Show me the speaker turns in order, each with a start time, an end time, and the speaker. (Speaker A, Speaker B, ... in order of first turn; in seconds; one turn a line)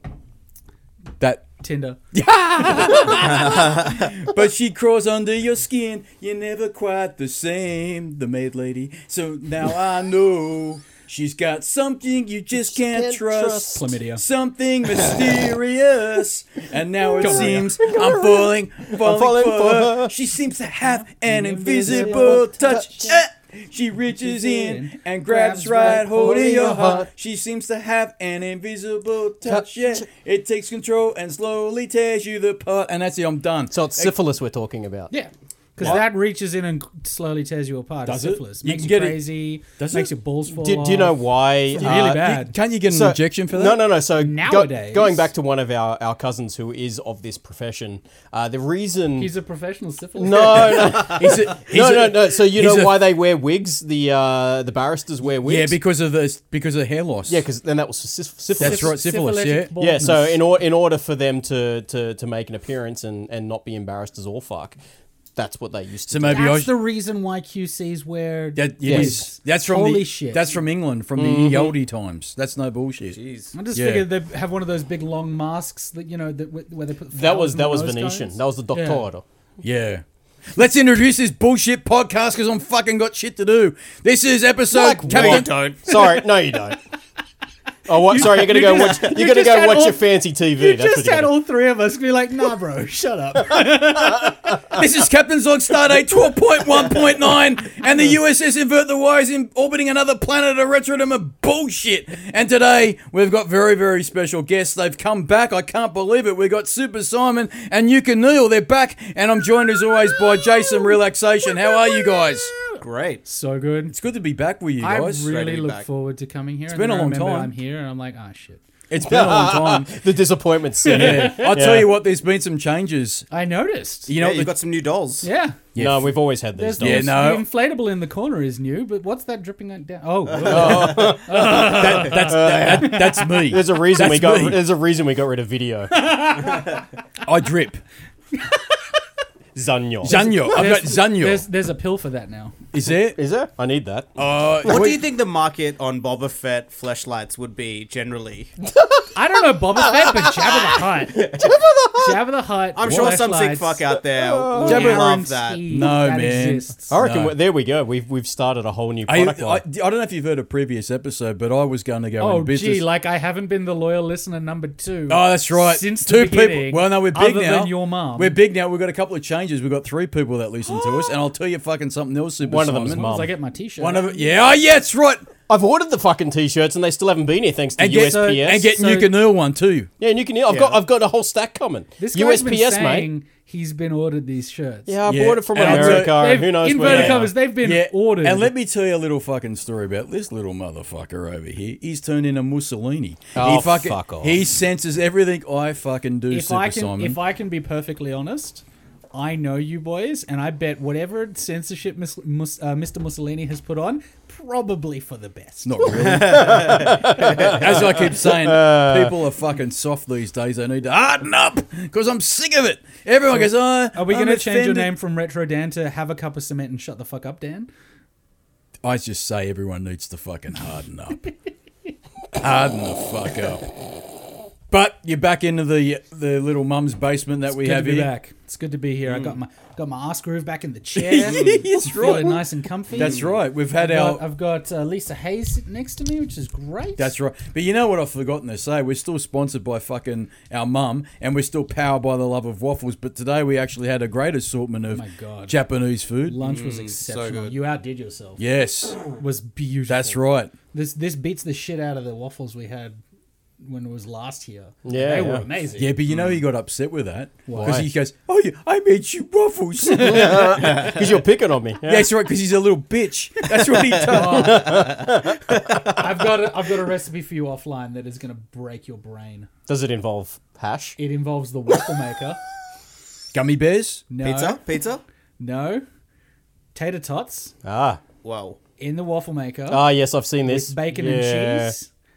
Speaker A: 1.2-1.5
Speaker B: 1.6-2.0
Speaker A: 2.1-34.1
Speaker C: 12.7-13.9
Speaker B: 13.7-14.2
Speaker C: 14.9-15.4
Speaker C: 17.1-20.1
Speaker B: 17.2-17.8
Speaker B: 21.2-23.1
Speaker C: 21.6-23.2
Speaker B: 24.2-26.9
Speaker C: 25.8-27.1
Speaker C: 29.4-30.0
Speaker C: 33.7-35.1
Speaker B: 35.1-42.5
Speaker A: 38.0-40.1
Speaker C: 40.5-42.2
Speaker A: 41.8-43.9
Speaker C: 42.9-49.3
Speaker B: 44.2-45.3
Speaker B: 49.2-51.1
Speaker C: 50.2-55.7
Speaker A: 50.9-53.1
Speaker A: 55.4-57.4
Speaker C: 57.3-58.9
Speaker B: 58.5-60.4
Speaker A: 58.6-59.7
Speaker C: 59.8-64.8
Speaker C: 65.3-66.5
Speaker A: 66.1-66.7
Speaker B: 66.3-70.6
Speaker A: 68.5-73.2
Speaker C: 68.8-69.2
Speaker C: 71.2-71.7
Speaker D: 73.1-73.5
Speaker B: 73.5-79.0
Speaker A: 73.7-74.1
Speaker C: 77.1-79.2
Speaker A: 79.6-85.5
Speaker B: 84.7-86.2
Speaker D: 85.1-85.9
Speaker C: 85.8-86.8
Speaker C: 87.9-91.3
Speaker B: 87.9-94.8
Speaker A: 94.7-112.5
Speaker B: 110.2-110.9
Speaker B: 111.6-113.9
Speaker D: 112.8-113.2
Speaker A: 113.9-115.3
Speaker B: 114.8-118.6
Speaker D: 115.2-115.8
Speaker A: 116.7-117.5
Speaker A: 118.9-120.0
Speaker C: 119.0-121.9
Speaker A: 120.8-123.3
Speaker B: 120.9-121.5
Speaker B: 123.3-124.1
Speaker A: 124.1-124.5
Speaker D: 124.1-125.3
Speaker B: 125.2-125.6
Speaker A: 125.7-126.1
Speaker C: 125.8-127.2
Speaker B: 126.5-133.4
Speaker A: 126.8-127.5
Speaker D: 130.3-131.1
Speaker C: 130.4-136.1
Speaker A: 130.4-134.6
Speaker B: 135.9-136.8
Speaker A: 137.2-137.8
Speaker C: 139.5-140.2
Speaker A: 140.0-141.4
Speaker B: 140.1-142.5
Speaker A: 142.7-143.2
Speaker C: 143.2-144.8
Speaker A: 144.2-145.0
Speaker D: 144.2-148.5
Speaker C: 148.6-149.1
Speaker B: 149.1-153.8
Speaker C: 149.7-152.2
Speaker D: 151.2-151.6
Speaker D: 152.7-155.7
Speaker A: 152.8-153.1
Speaker C: 154.1-154.8
Speaker B: 154.6-156.9
Speaker A: 154.6-155.1
Speaker A: 155.6-157.3
Speaker C: 156.9-159.6
Speaker A: 159.1-162.9
Speaker B: 162.2-168.4
Speaker A: 165.1-173.1
Speaker B: 170.6-171.2
Speaker C: 172.4-173.3
Speaker B: 172.9-174.3
Speaker A: 173.8-175.3
Speaker C: 175.5-178.7
Speaker A: 177.8-179.9
Speaker B: 177.9-179.1
Speaker C: 180.0-183.1
Speaker D: 180.5-180.8
Speaker B: 182.0-184.9
Speaker C: 184.9-187.3
Speaker A: 185.1-197.2
Speaker B: 185.5-188.5
Speaker C: 193.3-194.4
Speaker B: 196.3-205.9
Speaker A: 205.6-214.9
Speaker D: 205.9-207.6
Speaker C: 206.2-209.1
Speaker B: 213.3-217.7
Speaker A: 218.8-221.2
Speaker A: 222.3-223.6
Speaker A: 224.7-228.1
Speaker B: 227.5-237.1
Speaker D: 229.1-229.3
Speaker A: 230.9-234.2
Speaker D: 233.0-233.3
Speaker A: 237.0-246.4
Speaker B: 244.9-245.6
Speaker B: 246.3-248.4
Speaker D: 246.4-247.6
Speaker A: 248.4-249.0
Speaker B: 249.2-250.2
Speaker A: 249.9-250.5
Speaker B: 250.7-253.0
Speaker B: 253.6-255.9
Speaker C: 254.8-255.5
Speaker A: 255.8-261.0
Speaker D: 256.1-256.4
Speaker B: 257.5-257.8
Speaker C: 257.6-257.9
Speaker C: 259.9-262.1
Speaker D: 260.6-261.1
Speaker A: 261.8-264.8
Speaker B: 264.1-264.9
Speaker C: 264.2-265.4
Speaker D: 264.6-266.1
Speaker B: 265.9-269.5
Speaker C: 269.7-271.0
Speaker B: 271.0-272.4
Speaker A: 273.3-274.0
Speaker B: 274.1-274.6
Speaker D: 274.2-275.0
Speaker B: 275.4-275.8
Speaker B: 276.7-277.5
Speaker C: 277.6-278.0
Speaker D: 278.2-278.6
Speaker B: 278.8-279.9
Speaker C: 279.7-281.7
Speaker B: 280.4-281.9